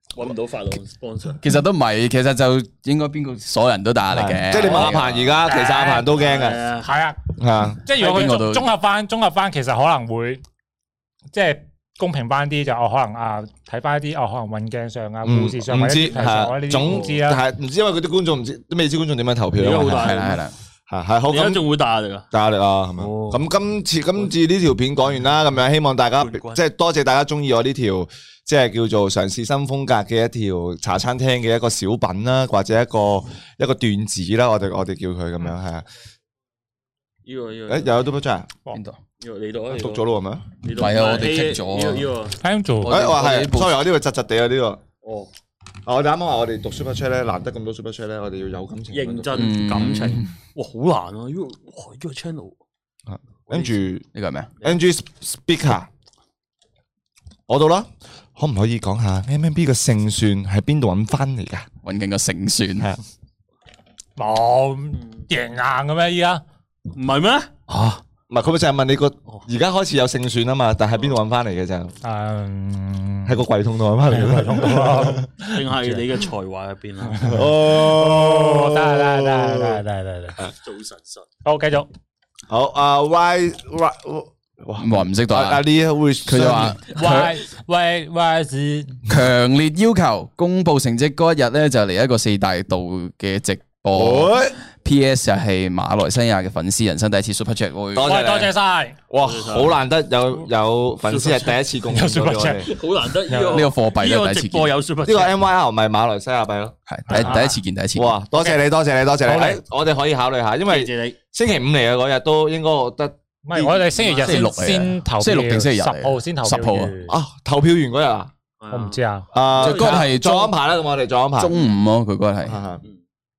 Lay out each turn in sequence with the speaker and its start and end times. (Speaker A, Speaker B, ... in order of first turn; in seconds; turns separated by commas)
Speaker A: 0.1-1.4, Speaker B: 1.4-5.3, Speaker C: 4.1-6.6, Speaker A: 4.7-4.9, Speaker D: 5.5-6.1, Speaker A: 5.5-6.9, Speaker D: 6.8-7.2, Speaker C: 7.4-7.8, Speaker D: 7.8-10.4, Speaker B: 8.0-8.7, Speaker D: 11.3-17.4, Speaker C: 15.2-20.3, Speaker A: 19.6-20.4, Speaker B: 20.0-20.5, Speaker C: 20.9-21.6, Speaker A: 21.3-22.3, Speaker C: 22.3-35.9, Speaker A: 23.0-23.4, Speaker A: 26.2-26.6, Speaker A: 37.2-37.9, Speaker C: 37.7-38.5, Speaker B: 38.7-39.0, Speaker A: 39.2-40.0, Speaker C: 39.7-40.4, Speaker A: 40.6-42.4, Speaker B: 40.8-42.1, Speaker D: 42.4-42.9, Speaker B: 42.8-43.8, Speaker C: 42.9-44.8, Speaker A: 45.0-45.3, Speaker C: 45.9-49.5, Speaker A: 48.9-52.5, Speaker B: 49.3-50.3, Speaker C: 53.1-54.0, Speaker A: 53.5-53.8, Speaker B: 54.1-54.5, Speaker C: 54.6-55.9, Speaker C: 57.5-61.7, Speaker B: 61.8-62.9, Speaker D: 64.2-66.4, Speaker A: 65.0-65.2, Speaker A: 66.9-67.5, Speaker D: 67.7-68.0, Speaker C: 68.3-71.9, Speaker D: 72.0-73.4, Speaker C: 73.3-75.2, Speaker D: 74.1-76.0, Speaker A: 75.5-77.3, Speaker D: 77.2-80.4, Speaker C: 77.2-79.8, Speaker A: 80.6-81.2, Speaker D: 81.4-81.9, Speaker C: 82.5-86.8, Speaker B: 84.8-85.6, Speaker B: 86.2-87.3, Speaker D: 86.9-89.0, Speaker B: 89.1-98.2, Speaker C: 93.9-94.6, Speaker C: 97.9-98.5, Speaker D: 98.0-99.0, Speaker C: 99.1-102.7, Speaker A: 99.2-99.8, Speaker A: 101.0-101.6, Speaker D: 101.9-102.7, Speaker A: 102.7-105.3, Speaker D: 103.3-103.7, Speaker B: 103.5-104.7, Speaker C: 105.0-107.4, Speaker B: 106.9-108.2, Speaker D: 107.1-107.6, Speaker C: 107.9-114.3, Speaker D: 108.3-108.6, Speaker D: 109.2-109.6, Speaker A: 110.7-111.2, Speaker D: 113.4-117.1, Speaker B: 114.1-117.0, Speaker C: 117.1-118.3, Speaker A: 118.6-120.0, Speaker D: 118.7-119.3, Speaker C: 119.3-121.5, Speaker B: 119.6-120.5, Speaker B: 121.4-122.6, Speaker C: 122.5-122.8